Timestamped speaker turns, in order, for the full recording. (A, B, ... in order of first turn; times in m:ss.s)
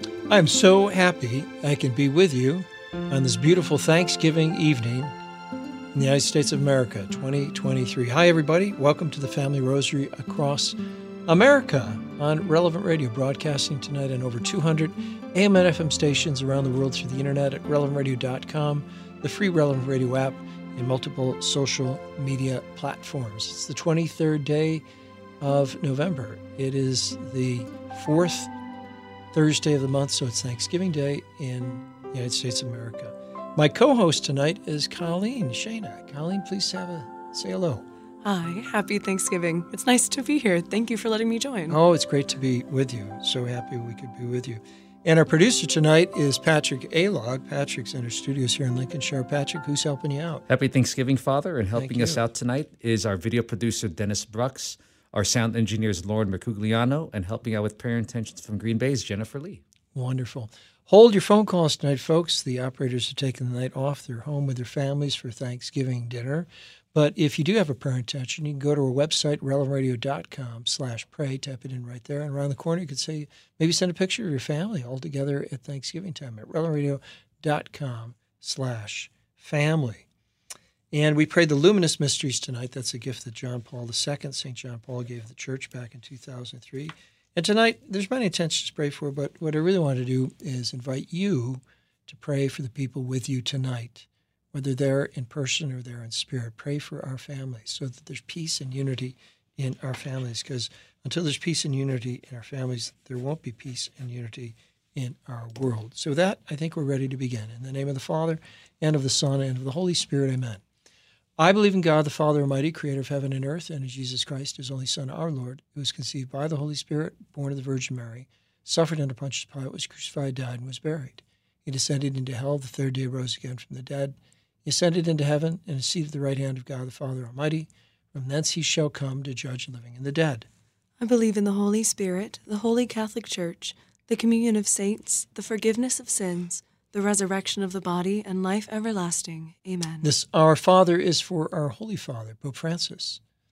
0:00.3-0:05.1 A
0:05.9-0:24.8 A
0:25.4-0:28.5 A
0:29.3-0:37.8 A
0:38.2-0:41.8 B
0:41.7-0:50.4 A
0:50.5-0:59.6 C
0:51.7-0:52.2 A
0:59.9-1:20.1 A
1:20.9-1:50.6 A
1:51.4-2:10.5 A
2:11.0-2:20.1 B
2:20.0-2:23.2 A